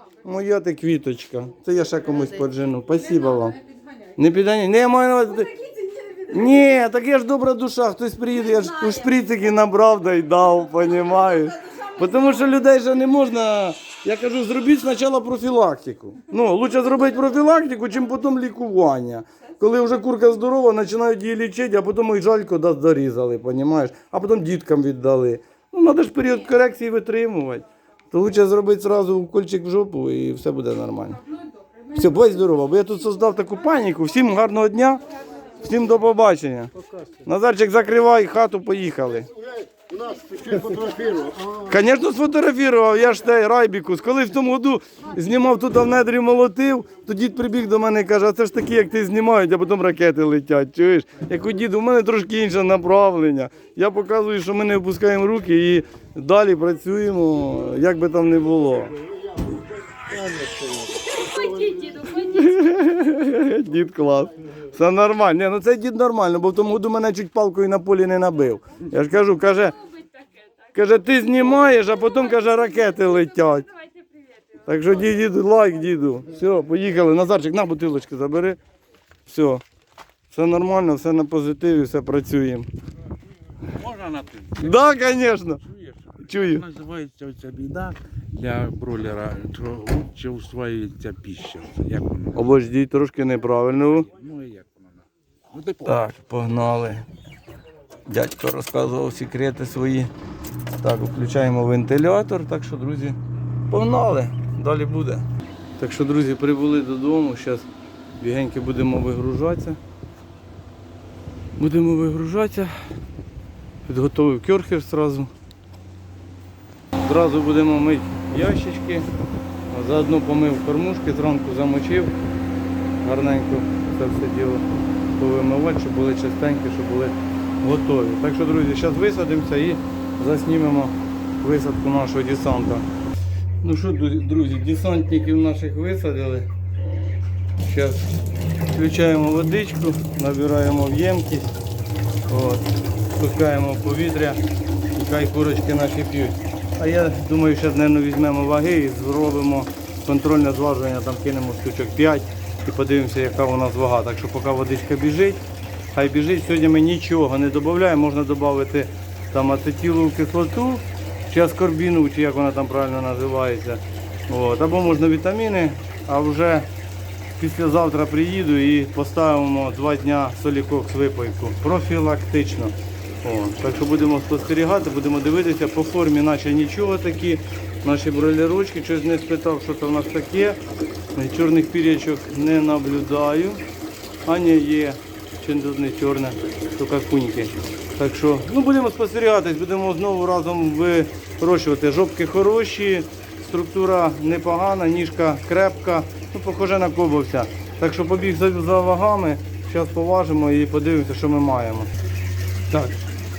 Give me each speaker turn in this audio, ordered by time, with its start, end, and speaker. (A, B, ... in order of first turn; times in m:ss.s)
0:00.2-0:03.6 A
0:01.9-0:04.2 B
0:04.2-0:05.5 A
0:05.3-0:06.8 B
0:06.3-0:31.2 A
0:11.5-0:12.1 B
0:31.0-0:33.5 B
0:31.9-0:35.0 A
0:35.6-0:36.7 A
0:37.2-0:39.3 A
0:39.3-0:41.8 C
0:41.7-0:59.0 A
0:59.0-1:01.9 C
1:01.1-1:03.2 B
1:02.1-1:09.8 A
1:09.6-1:10.7 B
1:10.7-1:13.7 A
1:11.3-1:14.6 B
1:14.6-1:18.6 A
1:19.3-1:19.6 A
1:20.3-1:22.7 A
1:23.8-1:24.8 D
1:24.6-1:25.6 A
1:25.7-1:32.4 D
1:26.2-1:26.6 A
1:32.3-1:34.1 A
1:34.1-1:35.9 D
1:35.8-1:37.1 A
1:38.1-1:40.1 A
1:40.8-1:43.2 A
1:43.7-1:45.2 A
1:45.8-1:47.7 A
1:48.2-1:49.8 A
1:51.6-1:52.7 A
1:53.9-1:55.3 A
1:57.0-1:59.1 A
1:59.7-2:02.1 A
2:03.0-2:04.6 A
2:05.2-2:12.9 A
2:13.6-2:16.5 A
2:17.6-2:18.1 A
2:18.7-2:21.6 A
2:22.3-2:24.4 A
2:24.9-2:35.4 A
2:35.9-2:46.7 A
2:47.4-3:00.6 A
3:01.2-3:03.6 A
3:04.2-3:21.9 A
3:22.7-3:23.0 A